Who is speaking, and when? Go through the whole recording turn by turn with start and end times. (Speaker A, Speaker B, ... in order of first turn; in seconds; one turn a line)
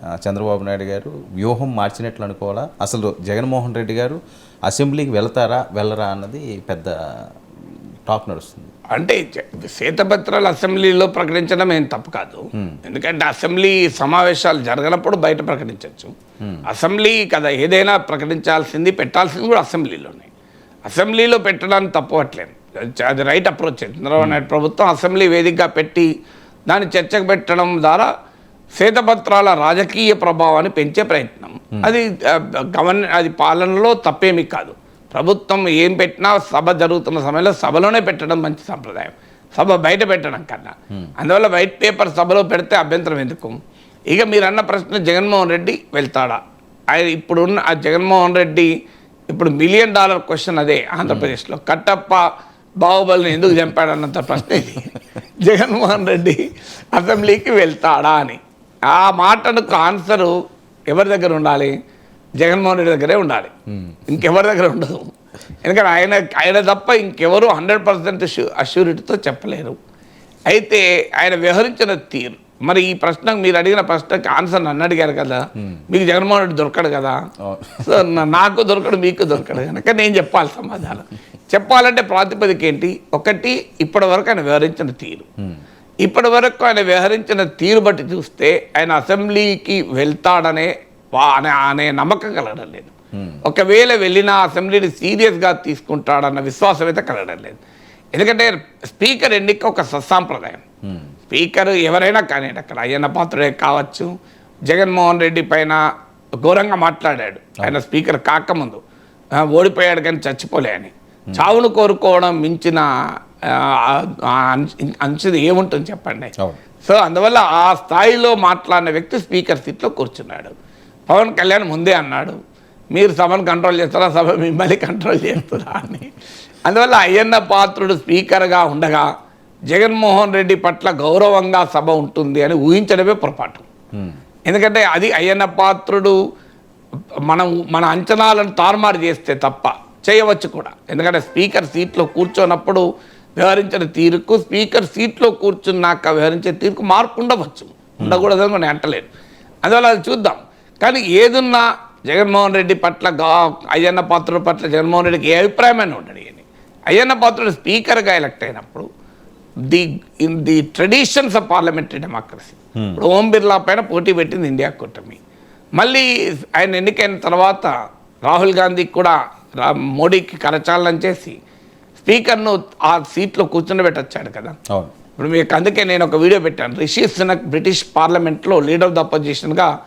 Speaker A: 0.2-6.9
Speaker A: 8.1-8.7
Speaker B: 8.9-16.1
Speaker B: 16.7-20.3
Speaker B: 20.9-26.1
Speaker B: 26.7-28.1
Speaker B: 28.8-43.6
Speaker B: 44.1-46.4
Speaker B: 46.9-48.7
Speaker B: 49.3-52.2
Speaker A: 51.0-51.3
Speaker B: 52.8-60.4
Speaker B: 60.9-61.8
Speaker B: 62.4-63.5
Speaker B: 64.1-65.1
Speaker B: 65.6-69.8
Speaker B: 70.5-77.2
Speaker A: 77.5-78.1
Speaker B: 77.8-85.3
Speaker B: 86.0-92.9
Speaker A: 93.2-93.4
Speaker B: 93.4-97.6
Speaker B: 98.1-100.6
Speaker A: 100.8-101.1
Speaker B: 101.3-104.1
Speaker B: 104.7-105.8
Speaker B: 106.4-108.8
Speaker B: 109.4-112.9
Speaker B: 113.4-120.5
Speaker B: 121.1-122.4
Speaker B: 122.9-126.1
Speaker B: 126.7-129.1
Speaker B: 129.7-133.7
Speaker B: 134.5-136.2
Speaker B: 137.3-149.1
Speaker A: 148.0-148.3
Speaker B: 149.6-158.9
Speaker B: 159.7-165.2
Speaker A: 162.8-163.0
Speaker B: 165.8-167.7
Speaker B: 168.2-171.4
Speaker B: 172.0-174.6
Speaker B: 175.2-179.7